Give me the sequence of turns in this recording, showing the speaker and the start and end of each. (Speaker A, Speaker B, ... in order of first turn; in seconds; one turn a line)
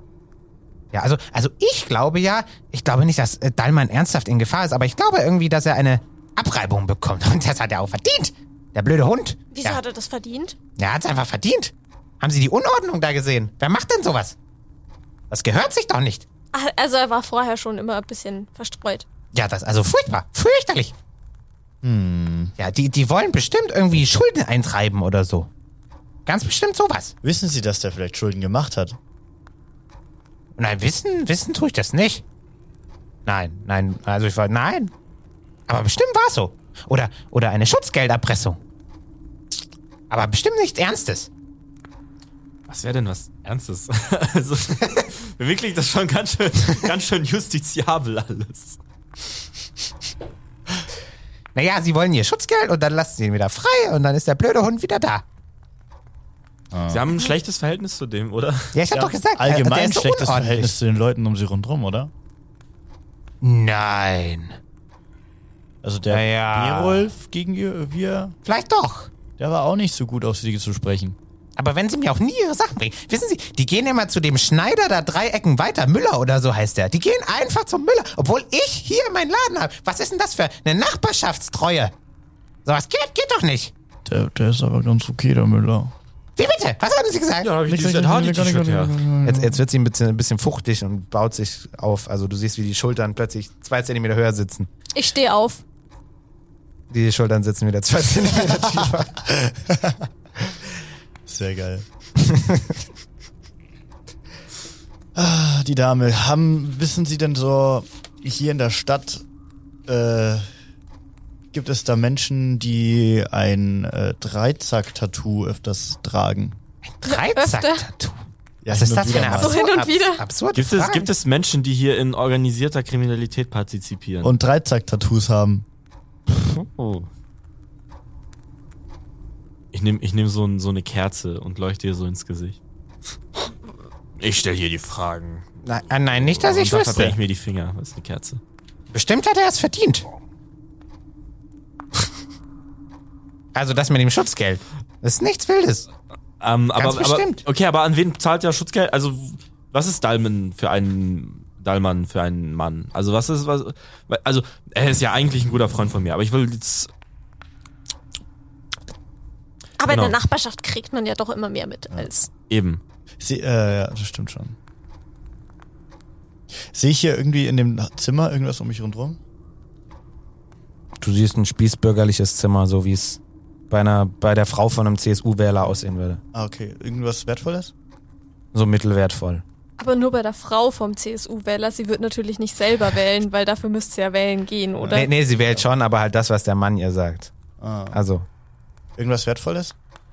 Speaker A: 0.9-9.8
Speaker B: 9.5-10.6
Speaker A: 10.8-14.4
Speaker A: 15.3-16.2
Speaker B: 16.5-19.1
Speaker A: 19.3-20.9
Speaker C: 21.8-22.5
Speaker A: 22.6-25.5
Speaker A: 26.3-27.1
Speaker C: 27.2-29.0
Speaker A: 30.6-32.2
Speaker A: 33.3-34.9
Speaker A: 35.7-38.6
Speaker A: 40.1-41.3
Speaker D: 42.7-48.8
Speaker A: 51.5-55.2
Speaker C: 56.7-57.1
Speaker D: 56.9-58.8
Speaker A: 58.7-60.7
Speaker C: 58.9-62.1
Speaker A: 63.4-64.6
Speaker C: 65.8-68.4
Speaker A: 66.1-67.1
Speaker A: 68.5-69.1
Speaker C: 69.4-71.2
Speaker A: 71.6-81.9
Speaker A: 82.6-83.7
Speaker C: 84.1-85.9
Speaker A: 86.4-87.5
Speaker D: 87.4-89.1
Speaker C: 87.6-89.6
Speaker E: 89.2-94.7
Speaker B: 94.9-95.6
Speaker E: 96.9-99.2
Speaker C: 99.2-100.1
Speaker C: 101.3-101.9
Speaker C: 105.1-109.2
Speaker C: 109.9-110.5
Speaker C: 111.5-116.6
Speaker A: 116.9-118.2
Speaker B: 117.0-117.9
Speaker C: 118.6-119.7
Speaker A: 118.7-121.1
Speaker B: 119.1-120.2
Speaker D: 120.5-124.3
Speaker C: 124.2-125.7
Speaker D: 126.3-127.1
Speaker D: 129.7-132.6
Speaker D: 134.2-135.5
Speaker A: 135.6-137.2
Speaker D: 136.1-138.4
Speaker A: 138.9-140.1
Speaker A: 143.6-145.9
Speaker D: 146.4-156.9
Speaker A: 146.8-147.4
Speaker B: 159.8-162.3
Speaker D: 159.9-160.2
Speaker D: 162.5-162.8
Speaker C: 163.2-164.6
Speaker C: 166.7-169.2
Speaker E: 171.0-176.2
Speaker C: 176.3-177.7
Speaker E: 178.5-179.4
Speaker B: 179.8-185.1
Speaker C: 184.8-185.6
Speaker E: 184.9-187.3
Speaker C: 187.6-188.0
Speaker E: 187.9-188.3
Speaker C: 189.0-189.8